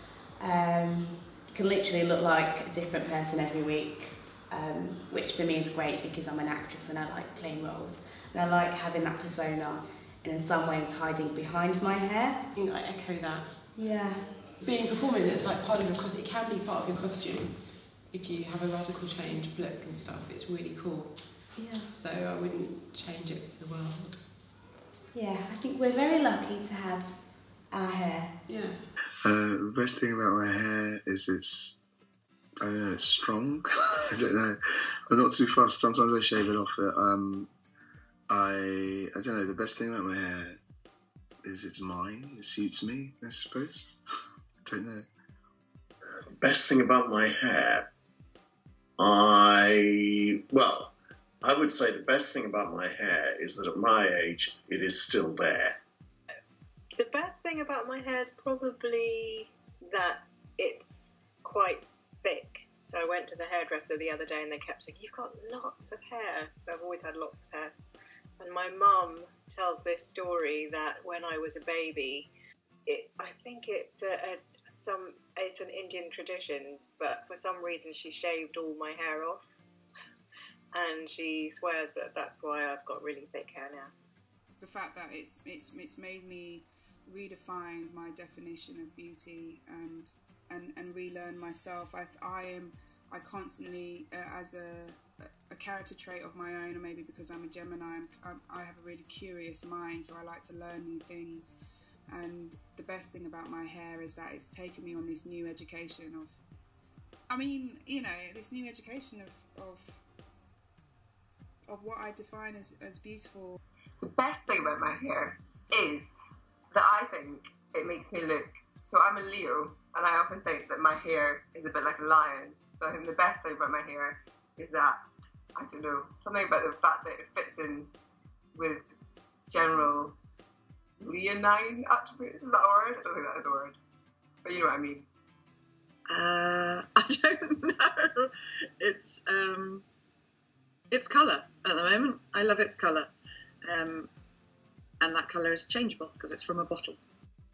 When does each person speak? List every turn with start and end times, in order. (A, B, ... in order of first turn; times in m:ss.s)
0:00.4-0:12.5 A
0:12.6-0:13.7 B
0:13.7-0:14.2 A
0:14.6-0:24.3 B
0:21.5-0:21.9 A
0:25.1-0:28.6 A
0:28.5-0:28.9 B
0:29.2-0:31.8 C
0:32.6-0:37.5 C
0:38.3-0:40.6 C
0:41.4-0:44.0 C
0:44.6-0:45.1 C
0:46.3-0:47.9 D
0:49.0-0:55.8 D
0:57.0-1:07.7 E
1:08.4-1:12.3 E
1:12.8-1:19.6 E
1:20.7-1:23.9 E
1:24.6-1:41.6 F
1:42.1-1:46.4 F
1:47.3-1:50.0 F
1:51.7-1:53.6 F
1:54.0-1:56.1 G
1:56.7-2:05.0 G
2:05.6-2:07.9 G
2:08.5-2:08.8 G
2:09.5-2:10.2 G
2:11.0-2:13.8 G
2:14.4-2:15.1 G
2:16.1-2:17.9 H
2:18.8-2:19.8 H
2:20.9-2:23.1 H
2:23.7-2:24.1 H
2:25.0-2:27.0 H